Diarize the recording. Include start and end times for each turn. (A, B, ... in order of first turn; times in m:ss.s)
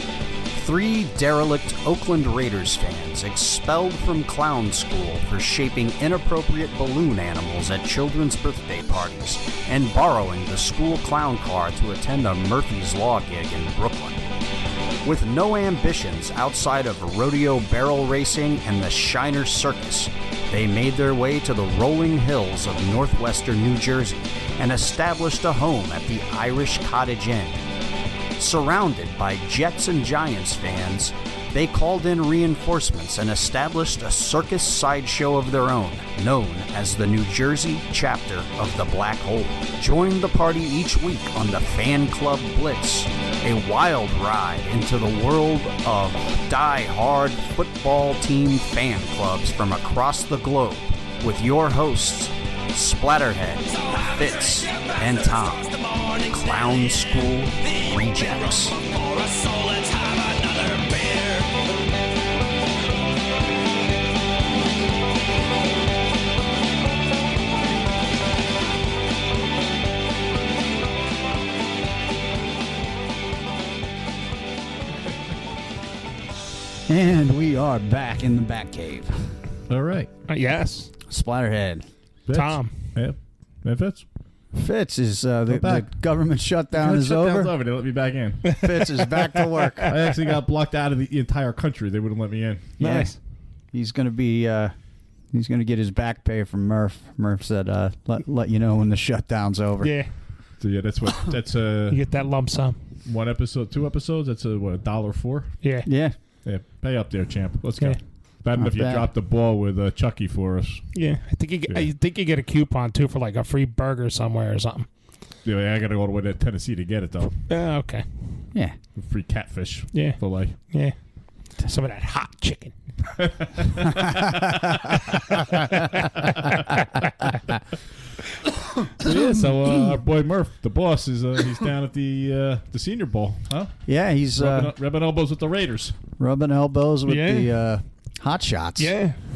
0:00.6-0:01.0 A
0:00.7-0:14.1 B
0:02.1-0:02.6 A
0:03.1-0:06.7 A
0:07.4-0:07.9 A
0:09.7-0:13.6 A
0:15.1-0:16.3 A
0:15.1-0:20.0 B
0:17.8-0:18.8 A
0:20.5-0:20.9 A
0:20.6-0:24.1 B
0:21.5-0:22.8 A
0:24.6-0:25.6 A
0:24.6-0:27.4 B
0:28.4-0:52.3 B
0:28.5-0:28.9 A
0:32.1-0:32.9 A
0:34.2-0:35.0 A
0:35.7-0:36.2 A
0:37.8-0:38.5 A
0:39.1-0:41.0 A
0:41.8-0:42.3 A
0:45.9-0:46.7 A
0:48.4-0:50.6 A
0:51.2-0:52.0 A
0:52.8-0:55.5 A
0:53.0-0:53.3 B
0:54.2-0:55.5 B
0:56.2-0:58.7 B
0:56.3-0:58.7 A
1:16.9-1:19.1 A
1:19.7-1:20.1 C
1:20.3-1:20.9 D
1:21.1-1:21.9 A
1:22.3-1:24.0 C
1:22.3-1:22.7 D
1:24.5-1:27.5 A
1:25.5-1:25.9 C
1:26.7-1:28.8 C
1:28.6-1:29.9 A
1:29.8-1:32.8 C
1:32.8-1:33.1 A
1:32.8-1:33.2 D
1:33.7-1:34.7 A
1:35.3-1:39.9 A
1:39.8-1:40.1 D
1:40.6-1:42.0 C
1:41.9-1:42.8 D
1:43.0-1:45.6 C
1:45.6-1:45.9 D
1:45.8-1:46.1 A
1:46.4-1:51.0 C
1:48.6-1:49.1 A
1:50.9-1:54.9 D
1:55.4-1:57.4 C
1:57.5-1:58.0 D
1:59.0-2:00.7 C
1:59.9-2:00.9 D
2:01.5-2:02.7 D
2:03.2-2:04.5 C
2:06.2-2:06.7 C
2:09.0-2:13.8 C
2:13.8-2:14.7 A
2:14.3-2:16.0 C
2:16.2-2:18.9 A
2:17.1-2:17.5 D
2:18.8-2:19.2 D